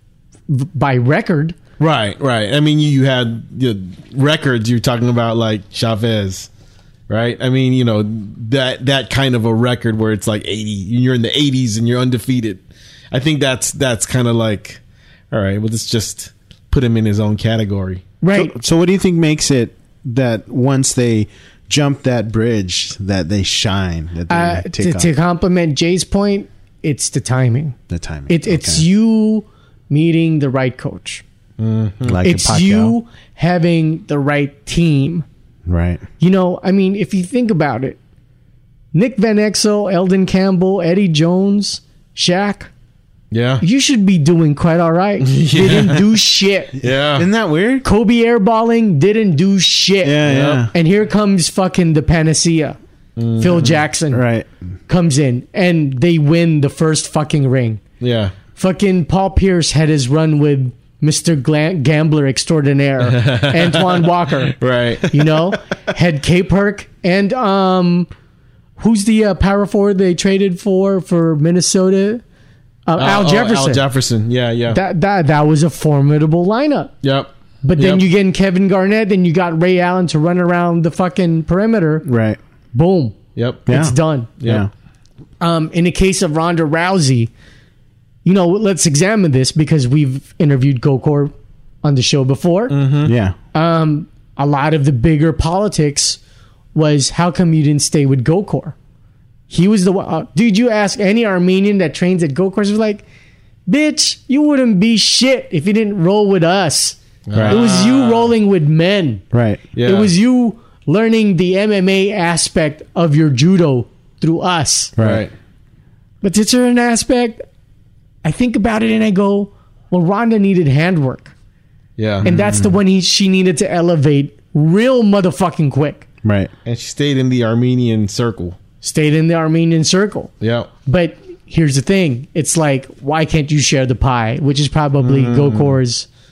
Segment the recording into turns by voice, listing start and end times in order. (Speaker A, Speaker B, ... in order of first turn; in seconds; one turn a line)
Speaker A: 0.5-1.6
Speaker B: 1.8-6.5
Speaker B: 7.1-18.0
Speaker A: 18.2-18.6
Speaker C: 18.3-25.1
Speaker A: 24.3-27.8
Speaker C: 27.9-28.9
Speaker A: 28.3-31.2
Speaker B: 31.6-32.2
Speaker C: 32.0-33.0
Speaker A: 32.2-35.2
Speaker C: 35.7-36.0
Speaker A: 36.2-38.0
Speaker A: 38.9-42.7
Speaker B: 43.3-43.6
Speaker A: 43.6-46.8
Speaker B: 45.2-46.0
Speaker B: 46.8-47.3
Speaker C: 47.1-47.9
Speaker A: 47.8-52.8
Speaker C: 50.0-50.7
Speaker B: 50.3-50.7
Speaker B: 53.2-53.8
Speaker A: 53.4-54.2
Speaker C: 54.1-54.5
Speaker A: 54.9-57.8
Speaker B: 58.0-58.4
Speaker A: 58.6-68.1
Speaker B: 63.0-65.5
Speaker A: 68.8-72.2
Speaker A: 72.9-73.8
Speaker B: 73.0-74.8
Speaker A: 74.7-76.9
Speaker B: 77.0-78.0
Speaker A: 77.6-82.1
Speaker C: 82.0-82.4
Speaker A: 82.7-84.3
Speaker B: 83.3-83.8
Speaker C: 83.7-84.7
Speaker B: 84.4-84.7
Speaker A: 85.4-87.3
Speaker A: 88.2-91.3
Speaker A: 91.8-92.8
Speaker B: 92.7-93.1
Speaker C: 93.0-93.3
Speaker A: 93.5-96.2
Speaker A: 96.7-98.8
Speaker A: 99.5-103.0
Speaker A: 103.7-109.2
Speaker B: 107.3-108.3
Speaker C: 107.3-107.6
Speaker C: 109.3-109.6
Speaker B: 109.8-110.1
Speaker A: 109.8-115.0
Speaker C: 115.0-115.2
Speaker B: 115.0-115.3
Speaker A: 116.2-117.4
Speaker A: 118.2-121.3
Speaker B: 122.0-122.3
Speaker C: 122.2-122.8
Speaker A: 122.2-126.1
Speaker C: 126.2-126.5
Speaker B: 126.7-128.6
Speaker A: 128.8-130.3
Speaker B: 130.4-130.7
Speaker A: 130.9-136.1
Speaker B: 135.0-135.8